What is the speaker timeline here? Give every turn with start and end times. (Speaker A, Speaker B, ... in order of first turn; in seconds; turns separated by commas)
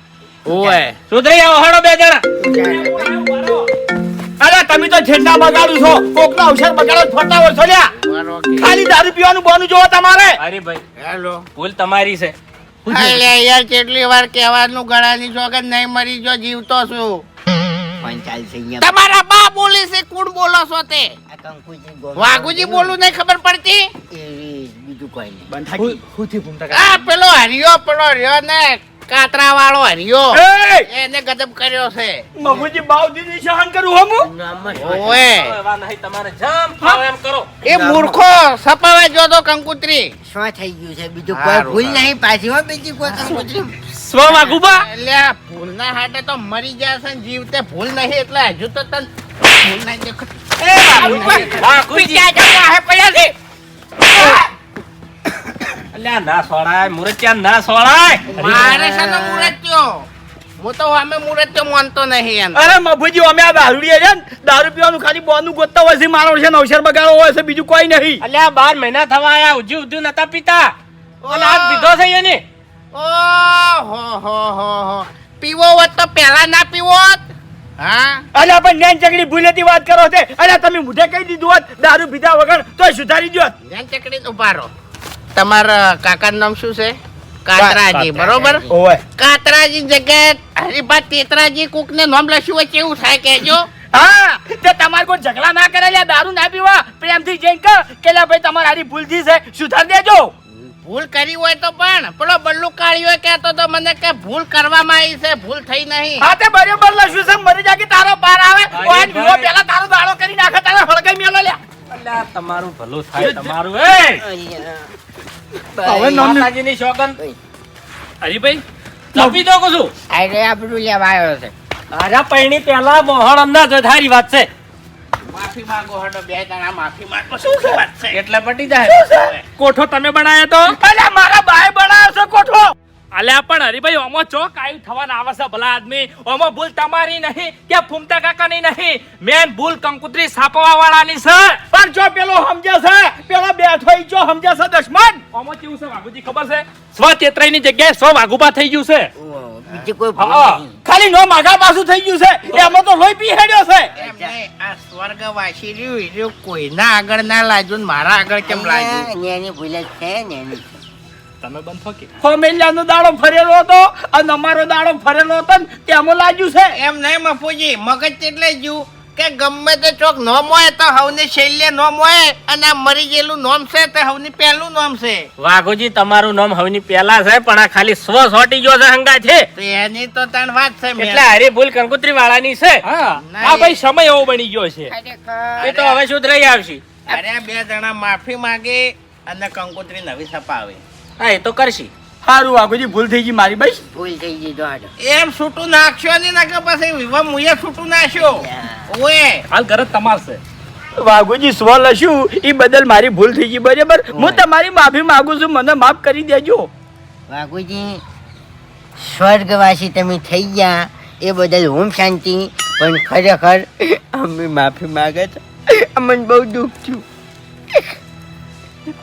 Speaker A: 0.5-1.0, Speaker B: 0.5-0.8, Speaker C: 1.1-2.2, Speaker B: 2.4-3.1, Speaker D: 2.7-3.7, Speaker E: 4.4-7.9, Speaker A: 8.0-8.7, Speaker E: 8.6-10.4, Speaker C: 10.4-10.8, Speaker A: 11.0-11.5, Speaker C: 11.6-13.3, Speaker A: 12.9-17.2, Speaker B: 18.0-18.9, Speaker A: 18.8-21.1, Speaker B: 21.3-23.0, Speaker A: 22.2-23.9, Speaker B: 24.1-25.6, Speaker E: 25.5-26.8, Speaker A: 26.7-32.3, Speaker E: 30.3-30.9, Speaker E: 32.4-34.3, Speaker B: 34.2-35.2, Speaker A: 34.8-35.6, Speaker C: 34.8-37.5, Speaker A: 37.6-40.1, Speaker B: 37.6-38.2, Speaker B: 40.2-43.8, Speaker A: 41.3-42.1, Speaker C: 44.0-44.9, Speaker A: 44.2-51.7, Speaker B: 50.8-53.4, Speaker C: 50.9-52.3, Speaker E: 54.2-54.4, Speaker C: 55.9-58.7, Speaker B: 58.3-59.5, Speaker A: 58.4-60.1, Speaker A: 60.6-62.6, Speaker E: 62.5-68.2, Speaker C: 68.2-70.7, Speaker A: 71.2-71.9, Speaker C: 71.3-72.4, Speaker A: 72.9-77.2, Speaker A: 77.8-78.3, Speaker E: 78.3-83.5, Speaker A: 83.6-84.7, Speaker A: 85.3-88.6, Speaker E: 87.6-88.1, Speaker B: 87.9-88.7, Speaker E: 88.7-89.0, Speaker A: 89.2-93.7, Speaker E: 93.9-100.3, Speaker A: 100.5-106.3, Speaker E: 106.2-111.6, Speaker C: 108.7-109.5, Speaker C: 111.9-114.2, Speaker E: 113.2-113.5, Speaker B: 114.2-114.9, Speaker B: 115.8-116.3, Speaker E: 115.8-116.5, Speaker C: 115.9-117.2, Speaker D: 118.2-118.6, Speaker C: 119.1-119.9, Speaker E: 119.2-119.4, Speaker B: 120.1-121.5, Speaker C: 121.9-124.5, Speaker A: 125.3-128.2, Speaker E: 127.4-127.8, Speaker C: 128.1-129.0, Speaker E: 128.9-129.3, Speaker A: 129.1-129.4, Speaker D: 129.6-130.8, Speaker E: 130.7-132.8, Speaker D: 133.1-141.6, Speaker E: 141.7-145.2, Speaker D: 145.3-149.1, Speaker B: 149.2-150.8, Speaker D: 150.2-150.6, Speaker E: 150.8-153.9, Speaker B: 153.9-154.3, Speaker A: 154.0-159.1, Speaker B: 158.4-160.8, Speaker D: 161.4-162.1, Speaker E: 162.2-166.8, Speaker A: 166.8-175.3, Speaker C: 175.4-179.5, Speaker A: 179.6-181.3, Speaker C: 181.0-182.8, Speaker D: 182.8-184.9, Speaker A: 183.2-183.8, Speaker B: 184.9-185.7, Speaker C: 185.6-186.8, Speaker A: 185.6-186.0, Speaker A: 187.1-190.8, Speaker C: 191.2-191.9, Speaker E: 192.2-193.8, Speaker B: 193.9-194.9, Speaker A: 195.0-199.4, Speaker B: 198.2-198.9, Speaker D: 199.5-200.4, Speaker E: 201.0-206.7, Speaker B: 204.1-204.4, Speaker B: 207.3-208.0, Speaker B: 209.0-217.1